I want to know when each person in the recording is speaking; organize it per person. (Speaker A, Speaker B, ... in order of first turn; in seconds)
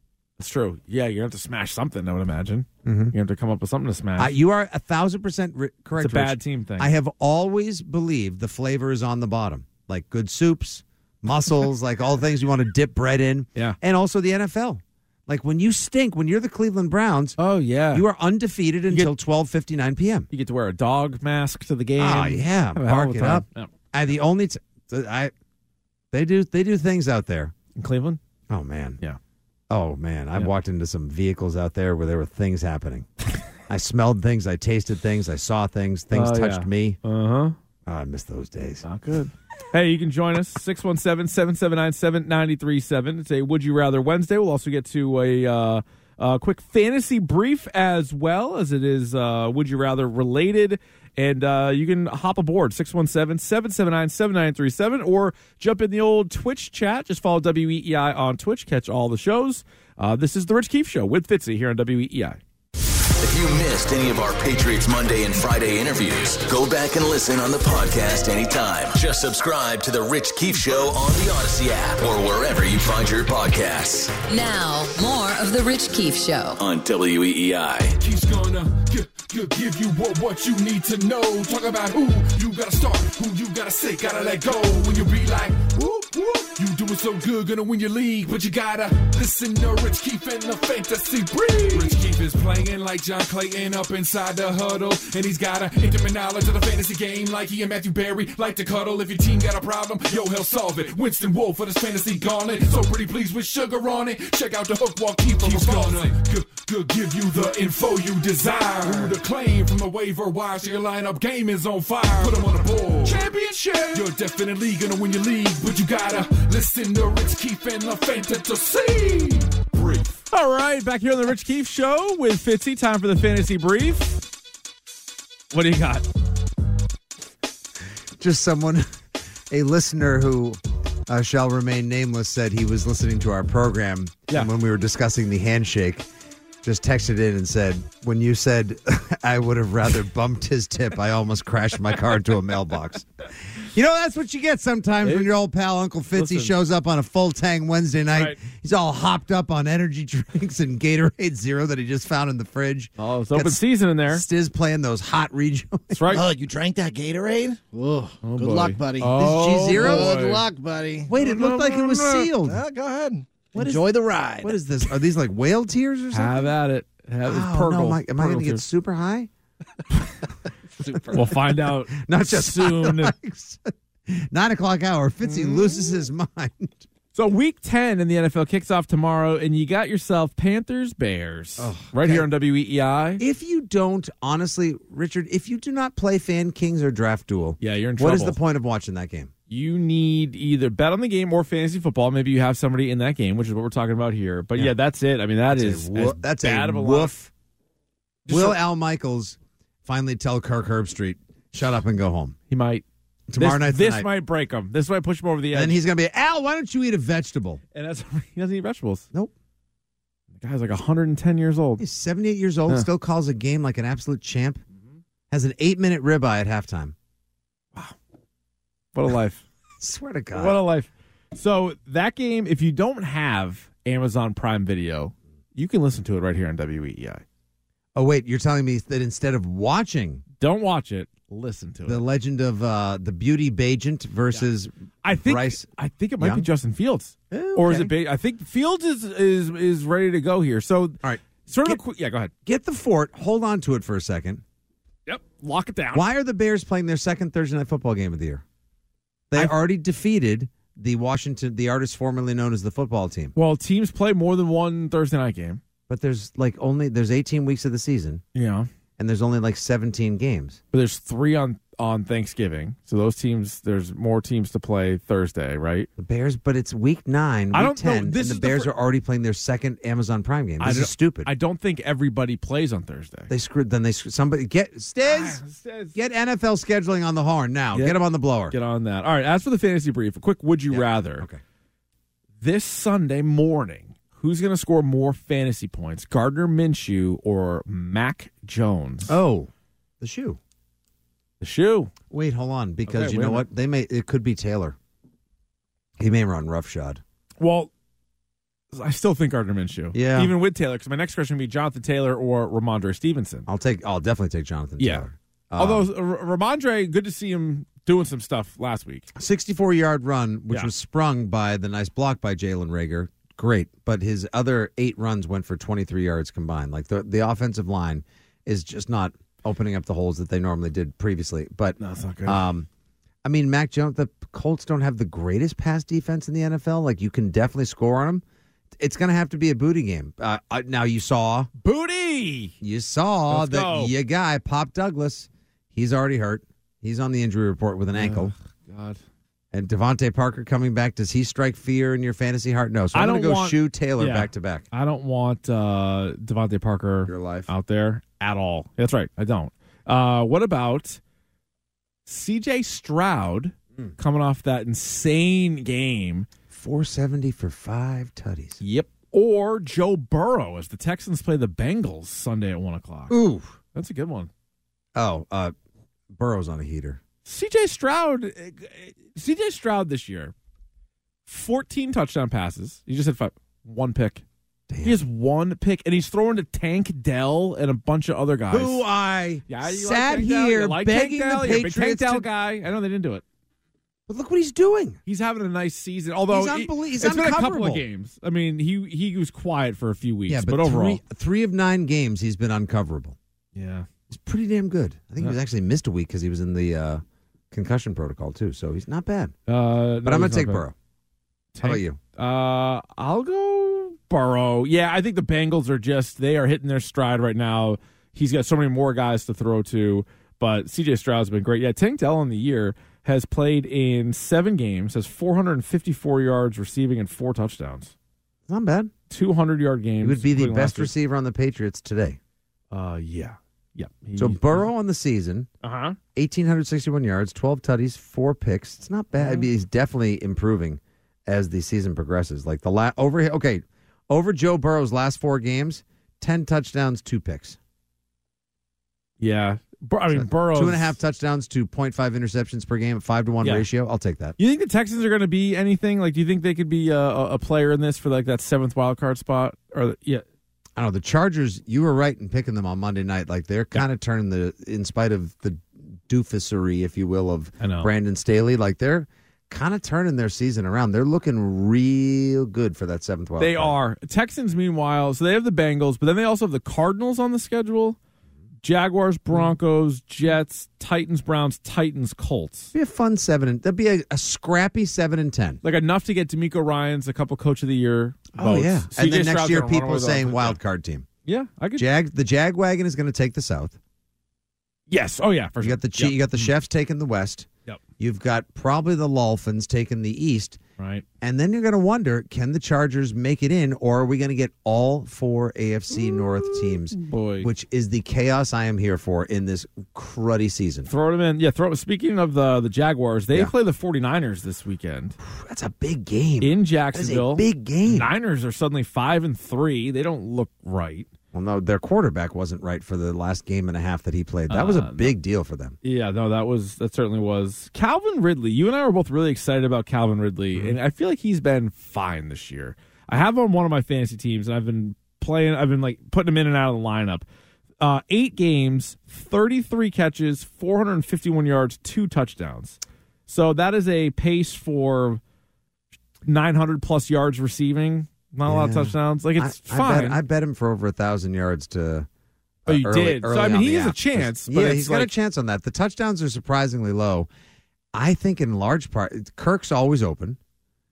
Speaker A: 0.4-4.3, 6.0-6.9, 17.4-18.1, 20.3-23.7, 27.8-28.2, 36.1-37.6, 38.8-62.4, 120.3-124.3, 125.5-126.0, 145.0-145.3, 146.1-146.5, 148.1-148.4, 153.0-154.2, 155.9-156.2, 158.2-160.4, 161.2-161.8, 166.1-168.6, 171.1-173.1, 175.2-175.9, 177.2-183.2, 187.6-188.4, 189.5-197.1, 198.3-198.6, 202.5-202.8, 203.4-205.8, 207.8-209.1, 210.4-211.8, 218.9-219.5, 220.3-227.2, 230.4-232.0, 235.0-242.3, 245.1-246.1, 253.3-255.6, 258.3-258.7, 260.7-265.9, 267.5-268.7, 270.6-273.3, 275.0-275.9, 277.7-278.0, 278.5-281.3, 282.4-289.1, 291.4-291.9, 292.9-293.4, 297.4-297.7, 298.7-303.5, 304.8-309.1, 321.8-322.4, 331.6-332.6, 333.3-333.9, 337.9-339.0, 342.9-351.0, 352.1-356.3, 358.6-363.1, 363.7-364.3, 367.2-370.3, 371.3-374.2, 374.8-378.9, 379.5-383.2, 385.1-391.0, 393.6-393.9, 399.5-400.6, 401.5-417.9, 419.1-420.9, 422.7-424.6, 425.6-426.0, 429.2-429.5, 439.2-441.0, 443.4-443.7, 444.4-450.2, 457.6-457.9, 463.4-468.0, 468.6-472.7, 475.6-480.6, 481.2-481.9, 484.9-486.5, 490.8-491.1, 497.1-497.5, 500.9-505.2, 506.4-511.1, 514.5-515.1, 515.8-527.2, 527.8-535.2, 536.2-540.2, 542.7-545.1
Speaker B: 2.9-3.1, 4.2-17.4, 17.9-20.3, 22.0-25.3, 26.1-27.5, 28.5-29.0, 29.7-33.1, 33.7-37.0, 37.9-38.8, 128.2-128.9, 129.5-136.1, 136.6-156.2, 159.2-160.2, 161.1-162.6, 163.6-163.9, 164.4-166.5, 167.3-169.3, 171.3-176.9, 181.6-182.3, 183.2-189.3, 195.5-197.3, 198.3-202.4, 203.3-204.1, 205.5-207.6, 211.8-214.6, 215.3-216.9, 219.8-220.6, 227.9-230.2, 231.8-235.7, 236.2-236.5, 237.3-237.9, 241.0-241.8, 242.4-244.4, 245.9-248.4, 249.3-253.3, 255.9-258.2, 259.0-260.6, 266.0-271.3, 273.3-275.4, 275.9-278.6, 280.7-281.4, 289.1-290.4, 292.1-294.8, 296.0-297.0, 299.9-300.3, 303.5-305.9, 309.1-322.7, 323.2-328.2, 328.8-331.5, 332.6-338.3, 339.5-344.6, 347.1-347.5, 356.5-358.6, 363.1-363.6, 364.9-365.5, 366.1-367.0, 374.7-375.0, 378.5-382.3, 384.1-385.0, 386.3-387.8, 390.3-393.2, 394.1-399.4, 400.0-400.7, 401.6-402.0, 418.5-418.9, 420.0-422.2, 424.2-425.5, 426.1-437.6, 440.1-444.4, 450.8-463.8, 472.7-475.6, 478.4-481.1, 481.8-483.8, 485.6-487.5, 488.0-490.6, 491.2-500.9, 505.2-508.1, 511.3-515.8, 538.5-542.1, 542.6-547.3, 547.9-550.4
Speaker C: 63.2-74.2, 76.6-77.9
Speaker D: 74.3-76.6
Speaker E: 78.0-120.2
Speaker F: 156.1-164.6, 170.8-171.2